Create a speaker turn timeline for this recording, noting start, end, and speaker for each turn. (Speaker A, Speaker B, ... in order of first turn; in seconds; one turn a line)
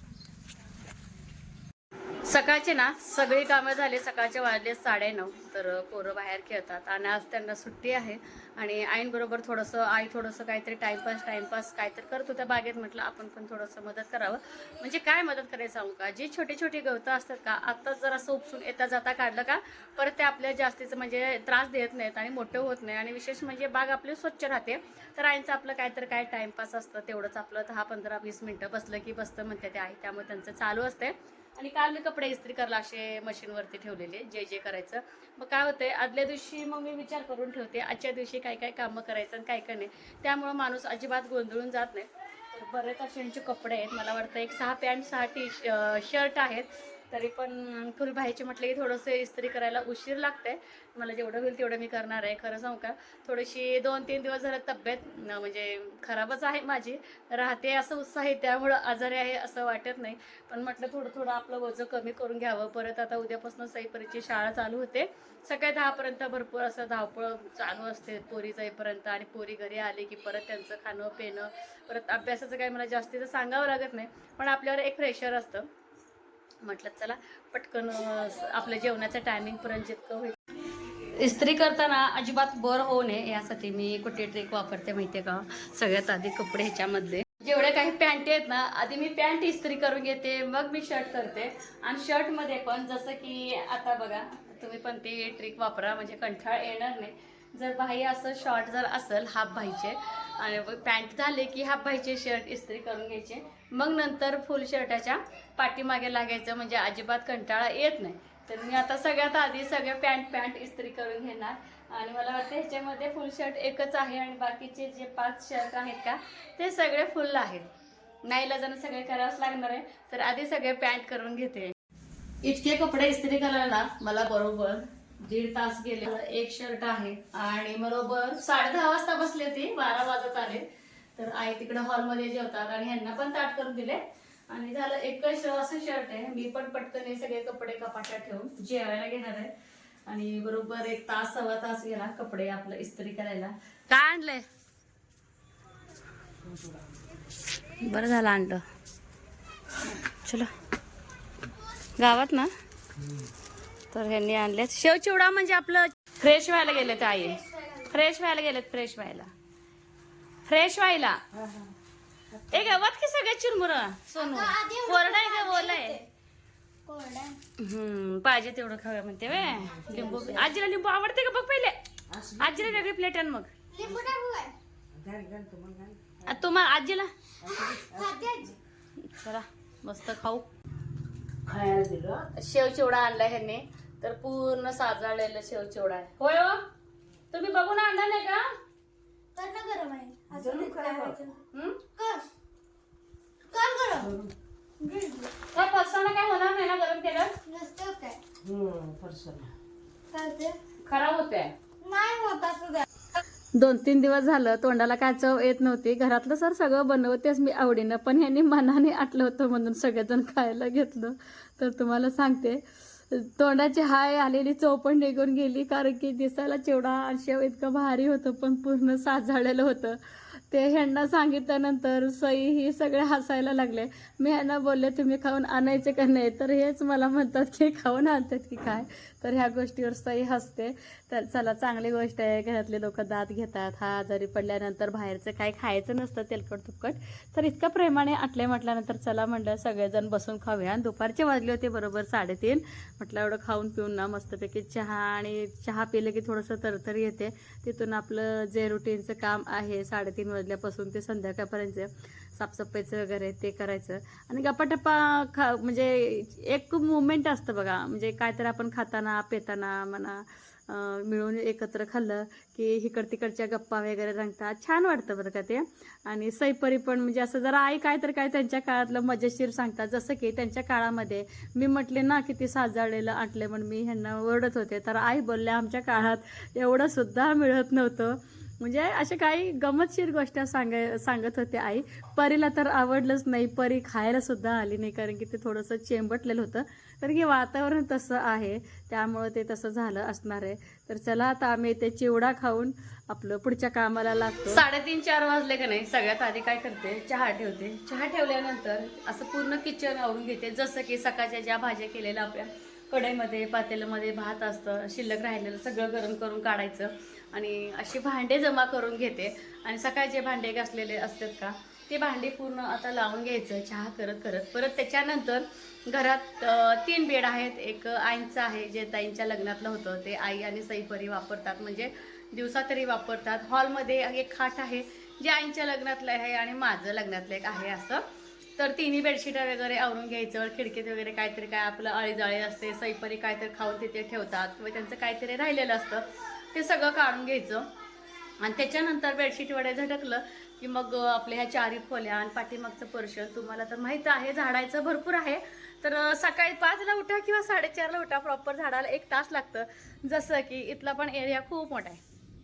Speaker A: 2.2-75.7
Speaker A: 76.6-80.4
Speaker A: 81.1-117.7
Speaker A: 118.2-121.7
Speaker A: 122.4-139.5
Speaker A: 140.1-144.4
Speaker B: 146.4-146.7
Speaker A: 147.8-148.6
Speaker A: 150.1-150.5
Speaker A: 152.0-152.5
Speaker A: 153.9-159.3
Speaker C: 156.7-157.9
Speaker A: 160.5-161.2
Speaker B: 161.3-161.7
Speaker B: 162.3-162.8
Speaker A: 162.5-166.0
Speaker C: 164.2-166.0
Speaker C: 166.8-167.4
Speaker A: 167.6-171.8
Speaker B: 169.4-170.5
Speaker C: 169.8-170.5
Speaker B: 172.1-172.8
Speaker A: 172.4-173.5
Speaker C: 173.7-174.5
Speaker B: 173.8-174.1
Speaker B: 174.9-176.4
Speaker A: 176.2-177.1
Speaker B: 177.4-178.6
Speaker C: 177.9-178.6
Speaker A: 179.0-180.5
Speaker B: 181.4-182.3
Speaker A: 182.3-186.7
Speaker A: 187.3-188.5
Speaker C: 189.3-191.4
Speaker B: 190.3-191.2
Speaker A: 191.5-191.8
Speaker C: 191.9-192.3
Speaker C: 193.5-194.1
Speaker B: 194.0-194.3
Speaker C: 194.8-195.3
Speaker A: 195.5-197.3
Speaker C: 197.4-198.2
Speaker B: 198.4-199.5
Speaker C: 200.1-200.6
Speaker A: 200.8-201.5
Speaker C: 201.8-202.8
Speaker A: 203.5-328.1
Speaker A: 328.6-337.7
Speaker A: 338.4-352.0